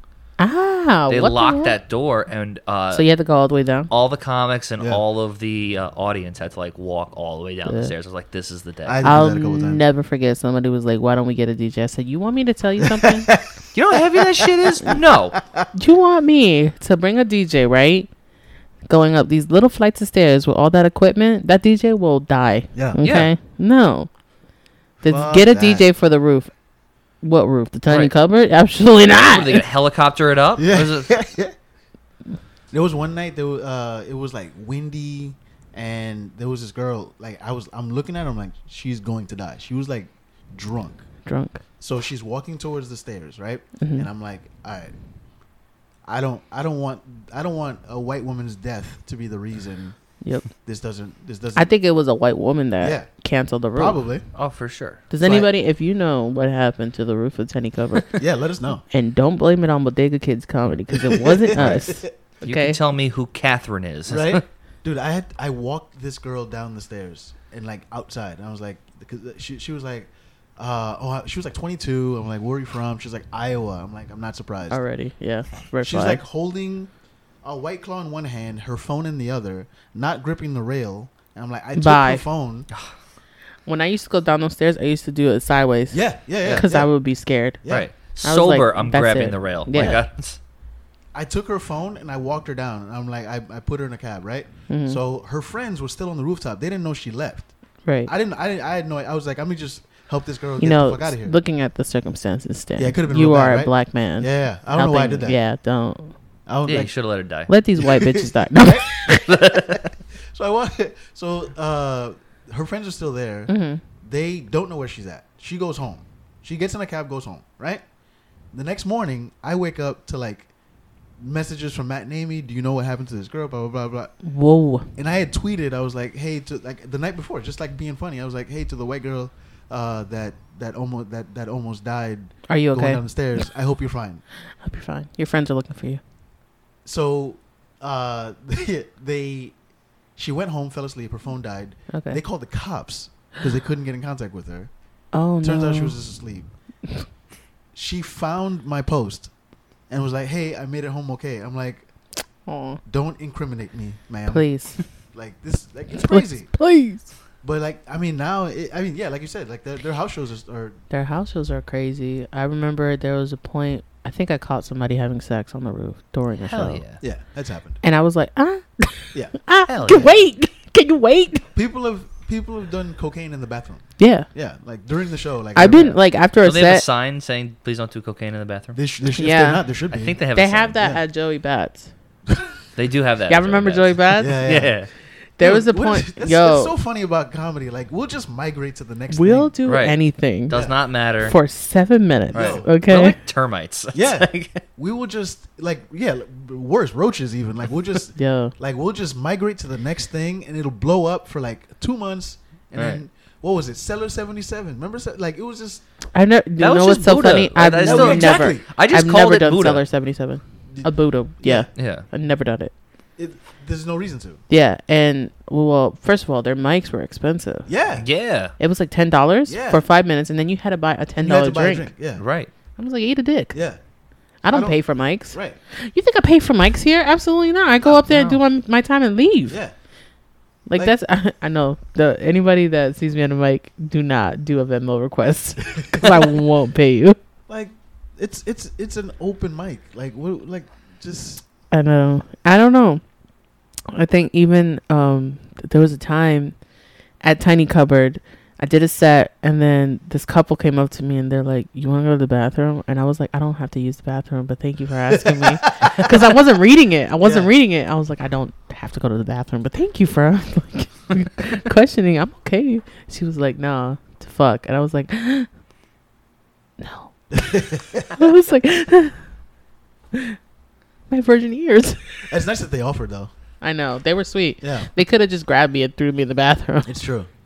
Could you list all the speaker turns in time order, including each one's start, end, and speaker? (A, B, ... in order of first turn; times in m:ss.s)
0:00.4-0:01.8 A
0:01.1-0:03.1 B
0:02.9-0:03.9 A
0:03.9-0:09.0 B
0:07.7-0:07.9 A
0:08.8-0:09.8 C
0:09.0-0:13.3 A
0:12.8-0:15.7 C
0:13.7-0:15.4 B
0:15.7-0:18.1 A
0:18.9-0:24.1 A
0:22.7-0:23.0 C
0:23.0-0:23.3 B
0:25.0-0:26.5 A
0:25.0-0:25.8 C
0:27.2-0:29.6 A
0:29.2-0:31.2 B
0:30.6-0:31.5 C
0:32.7-0:41.0 C
0:41.2-0:41.6 A
0:41.8-0:44.9 C
0:43.8-0:44.1 A
0:46.0-0:50.0 C
0:50.2-0:50.5 A
0:50.5-0:51.7 C
0:51.6-0:54.0 A
0:52.8-0:53.1 C
0:53.8-0:54.3 C
0:54.4-0:55.0 B
0:55.1-0:58.1 A
0:55.2-0:55.5 C
0:58.2-0:58.8 C
0:58.9-1:02.8 A
1:00.9-1:02.1 C
1:02.4-1:04.4 B
1:04.1-1:14.8 C
1:14.7-1:16.2 A
1:15.8-1:16.9 C
1:17.4-1:22.7 C
1:21.8-1:22.2 A
1:23.7-1:27.6 A
1:25.9-1:26.9 C
1:27.6-1:27.9 C
1:27.7-1:30.4 B
1:28.1-1:30.0 A
1:31.1-1:37.5 C
1:34.7-1:35.0 A
1:37.8-1:38.1 A
1:38.1-1:41.4 C
1:40.6-1:46.1 A
1:42.8-1:45.4 C
1:46.5-1:46.9 C
1:46.7-1:47.5 B
1:47.5-1:49.3 A
1:47.8-1:57.8 C
1:49.1-1:49.9 B
1:53.5-1:53.8 A
1:58.5-2:00.5 C
2:01.2-2:04.2 C
2:04.2-2:04.9 A
2:05.0-2:14.2 C
2:12.5-2:13.4 A
2:14.6-2:16.0 A
2:16.8-2:19.6 C
2:20.2-2:24.7 C
2:21.9-2:22.2 A
2:25.1-2:26.0 A
2:25.4-2:26.5 C
2:27.7-2:29.3 C
2:29.9-2:31.9 C
2:32.5-2:32.8 A
2:32.9-2:36.5 C
2:34.3-2:34.8 A
2:36.0-2:37.1 A
2:37.4-2:40.8 C
2:40.9-2:46.8 A
2:46.4-2:47.0 B
2:47.0-2:47.8 C
2:47.8-2:51.5 A
2:49.7-2:50.2 B
2:51.5-2:56.0 C
2:54.0-2:54.3 A
2:55.6-2:56.8 A
2:56.4-2:58.8 B
2:58.7-3:00.2 C
2:59.2-2:59.6 A
2:59.9-3:00.8 B
3:00.3-3:01.9 A
3:02.8-3:04.9 B
3:03.3-3:04.4 A
3:04.2-3:04.8 C
3:05.4-3:06.7 A
3:05.4-3:09.5 C
3:09.1-3:10.6 A
3:09.7-3:11.4 B
3:11.2-3:13.2 A
3:12.3-3:12.7 C
3:12.3-3:14.6 B
3:13.9-3:25.8 C
3:18.2-3:18.5 A
3:22.8-3:23.0 B
3:26.1-3:32.7 A
3:26.6-3:29.8 B
3:27.8-3:28.6 C
3:30.7-3:31.7 C
3:31.8-3:32.1 B
3:33.2-3:34.4 C
3:34.5-3:37.7 A
3:37.7-3:38.1 C
3:38.0-3:38.5 B
3:38.6-3:41.9 A
3:39.5-3:39.8 C
3:41.2-3:42.2 C
3:42.2-3:42.5 B
3:42.8-3:43.5 A
3:43.5-3:43.8 C
3:44.4-3:49.6 A
3:44.5-3:45.6 C
3:47.9-3:48.4 B
3:49.5-3:49.7 C
3:50.7-3:57.2 A
3:55.9-3:56.3 C
3:57.5-4:01.4 C
4:01.7-4:03.0 A
4:03.9-4:06.6 A
4:07.2-4:25.5 A
4:15.1-4:16.1 C
4:17.2-4:17.5 C
4:26.8-4:27.2 A
4:27.3-4:28.3 C
4:28.1-4:29.2 A
4:31.1-4:32.2 A
4:32.3-4:33.3 C
4:33.6-4:37.0 A
4:34.6-4:34.9 C
4:36.8-4:37.3 C